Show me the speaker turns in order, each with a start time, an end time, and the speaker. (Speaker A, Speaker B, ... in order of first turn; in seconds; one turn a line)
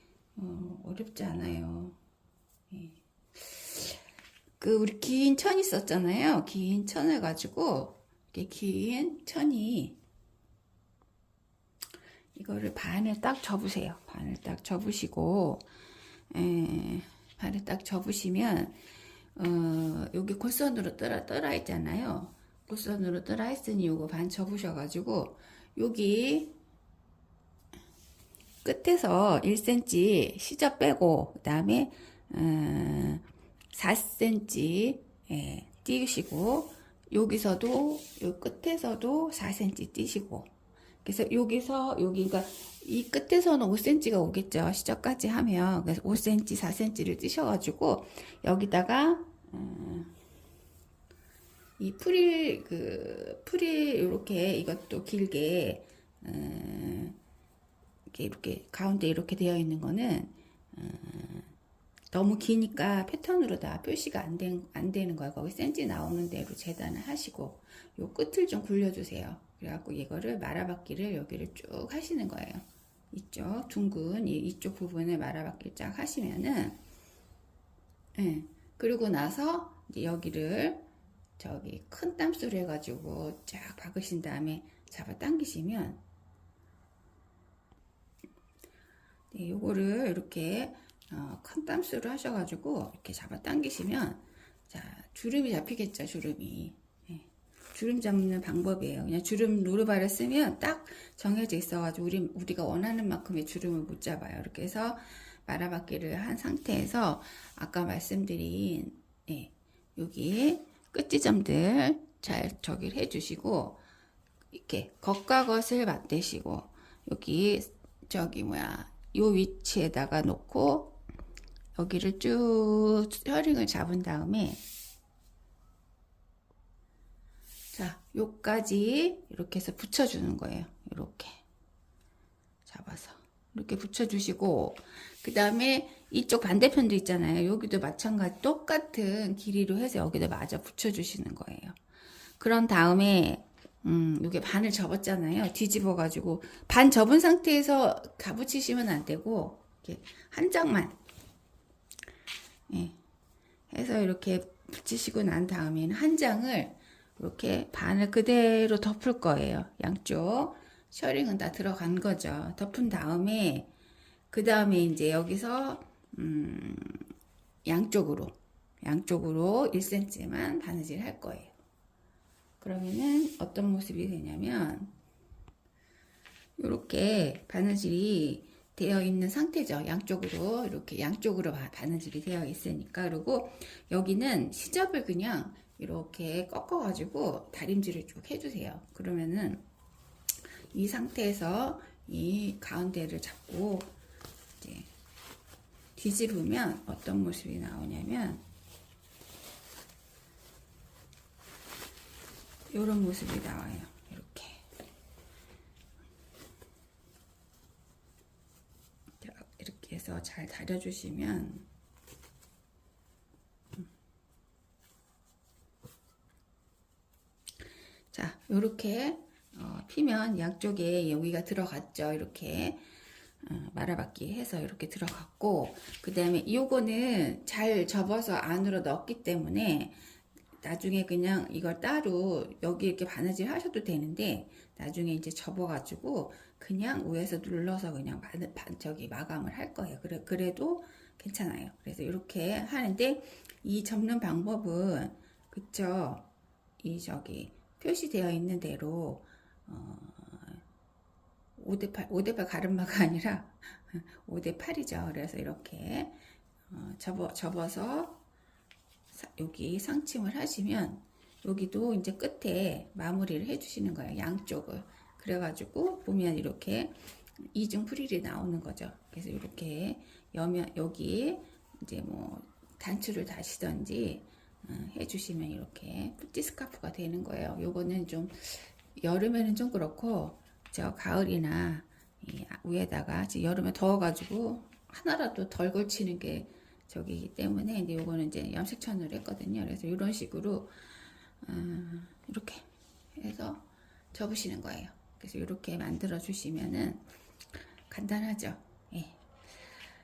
Speaker A: 0.4-2.0
Speaker A: 2.7-4.0
Speaker A: 4.6-10.0
Speaker A: 12.3-15.7
Speaker A: 16.3-18.8
Speaker A: 19.4-26.6
Speaker A: 28.6-40.5
Speaker A: 41.0-50.1
Speaker A: 51.8-57.2
Speaker A: 58.1-61.5
Speaker A: 62.1-76.8
Speaker A: 78.2-80.9
Speaker A: 81.4-86.0
Speaker A: 89.3-113.8
Speaker A: 114.5-120.9
Speaker A: 121.8-124.6
Speaker A: 127.7-131.4
Speaker A: 132.7-141.8
Speaker A: 142.4-151.0
Speaker A: 152.7-153.0
Speaker A: 153.7-163.7
Speaker A: 164.3-167.1
Speaker A: 167.7-171.6
Speaker A: 172.6-174.9
Speaker A: 176.6-189.6
Speaker A: 190.7-193.9
Speaker A: 194.6-194.9
Speaker A: 196.0-198.4
Speaker A: 202.7-204.7
Speaker A: 209.2-211.7
Speaker A: 218.1-222.8
Speaker A: 223.4-230.0
Speaker A: 230.6-246.3
Speaker A: 246.8-250.6
Speaker A: 251.6-256.2
Speaker A: 256.7-258.2
Speaker A: 259.1-290.8
Speaker A: 291.4-297.0
Speaker A: 297.9-299.2